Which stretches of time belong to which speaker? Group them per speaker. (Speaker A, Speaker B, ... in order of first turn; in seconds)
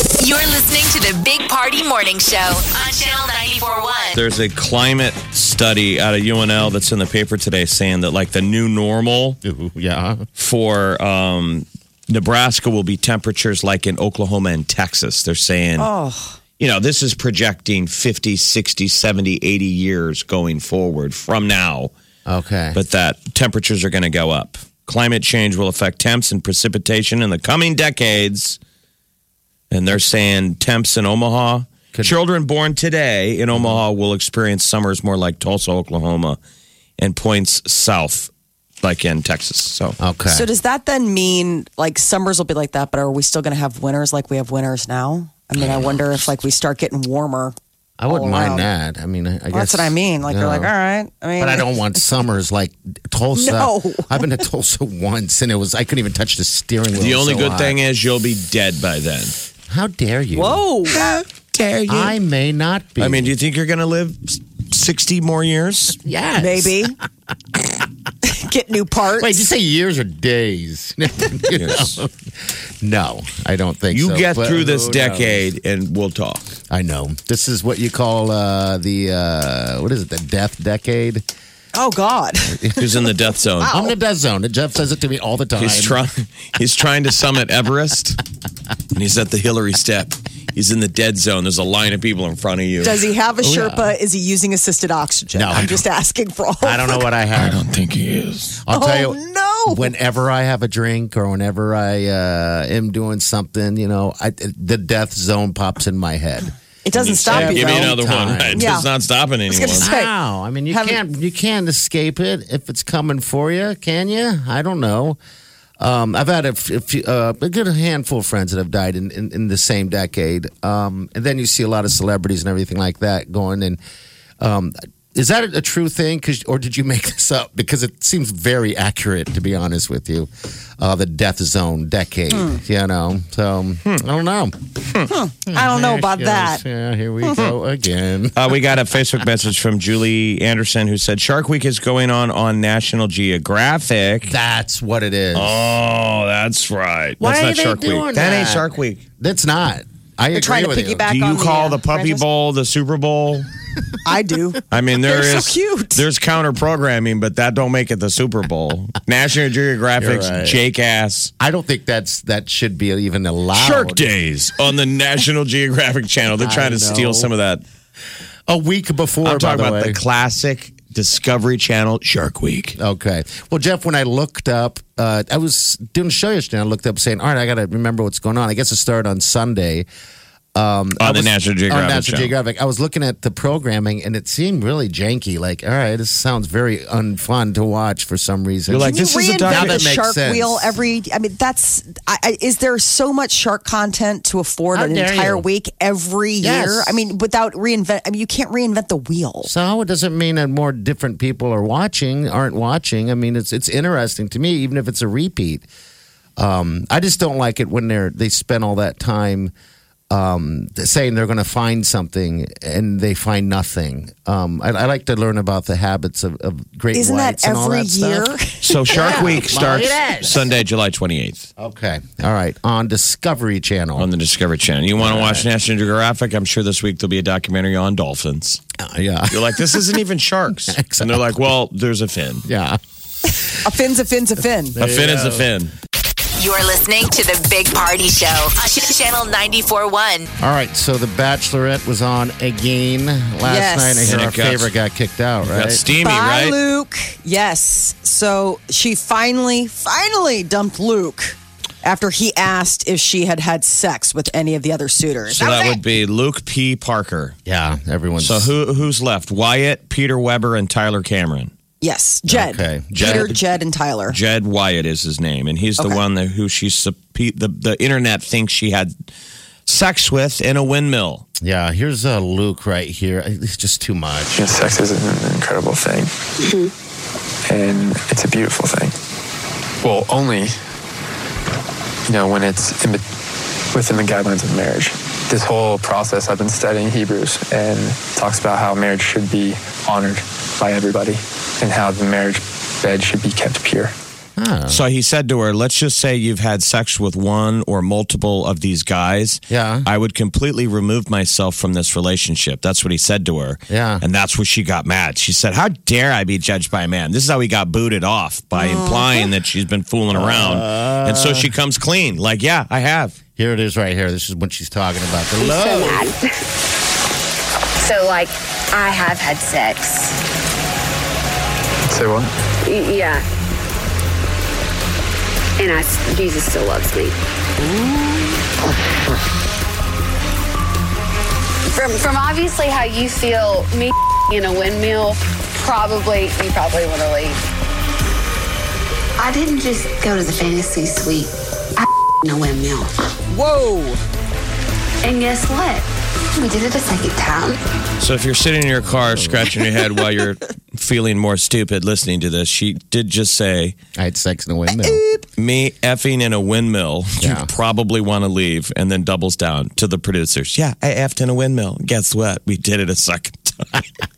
Speaker A: 0.1-4.2, 236.4-240.3
Speaker B: 4.1-9.4, 10.4-15.9, 16.6-21.9, 22.7-28.6, 29.7-36.4, 37.0-38.3, 38.8-40.0, 57.0-59.3, 60.9-62.1, 63.0-66.0, 71.5-72.0, 73.9-76.4, 82.8-83.8, 85.6-88.2, 88.9-93.0, 97.3-98.6, 107.0-109.9, 138.3-144.3, 145.3-149.0, 151.1-153.5, 154.7-161.3, 163.5-167.6, 169.2-172.8, 181.0-182.3, 188.7-189.9, 218.6-221.5, 223.9-228.6, 229.3-232.4, 234.8-235.7, 244.1-244.7, 245.4-246.6, 255.3-257.4, 258.2-261.5, 263.0-263.4, 264.1-268.9, 269.7-271.2, 294.7-313.2, 348.0-353.8, 355.4-363.9
Speaker C: 9.4-10.2, 22.2-22.8, 33.5-33.8, 40.0-40.5, 48.0-50.7, 51.4-57.8, 59.7-60.6, 61.9-63.3, 66.0-66.9, 69.2-75.5, 76.7-81.2, 82.5-82.8, 83.7-86.0, 93.4-93.9, 95.3-95.8, 96.6-97.6, 98.6-106.5, 107.2-108.7, 109.8-115.2, 115.8-123.8, 124.4-134.6, 135.5-138.6, 144.2-145.7, 147.2-151.0, 160.0-160.6, 161.4-164.0, 166.4-167.3, 168.5-170.0, 172.8-179.8, 180.5-190.7, 194.7-195.4, 196.4-197.0, 199.4-205.7, 206.4-209.5, 210.1-218.3, 218.9-220.5, 221.6-224.1, 225.0-225.5, 228.8-229.9, 230.7-231.2, 232.4-232.8, 234.8-235.5, 240.4-245.8, 257.4-258.5, 262.3-263.4, 271.4-274.7, 294.4-294.8, 299.5-299.9, 303.7-304.0, 310.1-311.5, 313.4-316.1, 348.8-349.6, 353.9-355.0, 357.2-357.5
Speaker D: 15.8-16.4, 40.3-47.5, 48.1-48.7, 49.5-51.7, 53.3-54.2, 60.3-61.2, 66.4-67.0, 68.2-69.4, 81.7-82.9, 92.8-97.1, 98.7-99.9, 106.8-108.0, 108.5-108.9, 109.5-110.1, 110.7-111.0, 135.1-136.6, 150.3-152.2, 154.0-156.0, 188.8-199.5, 216.9-219.2, 233.4-234.8, 243.4-244.1, 245.9-255.8, 261.8-264.2, 308.6-309.2, 343.3-344.0, 354.9-355.2
Speaker E: 274.3-276.1, 277.5-278.9, 279.8-280.6, 282.1-283.0, 283.7-293.9, 321.8-322.3
Speaker F: 276.4-276.7, 315.4-316.3, 317.8-320.2, 322.6-323.2, 325.6-327.6, 331.7-337.4, 339.2-342.9, 345.0-347.6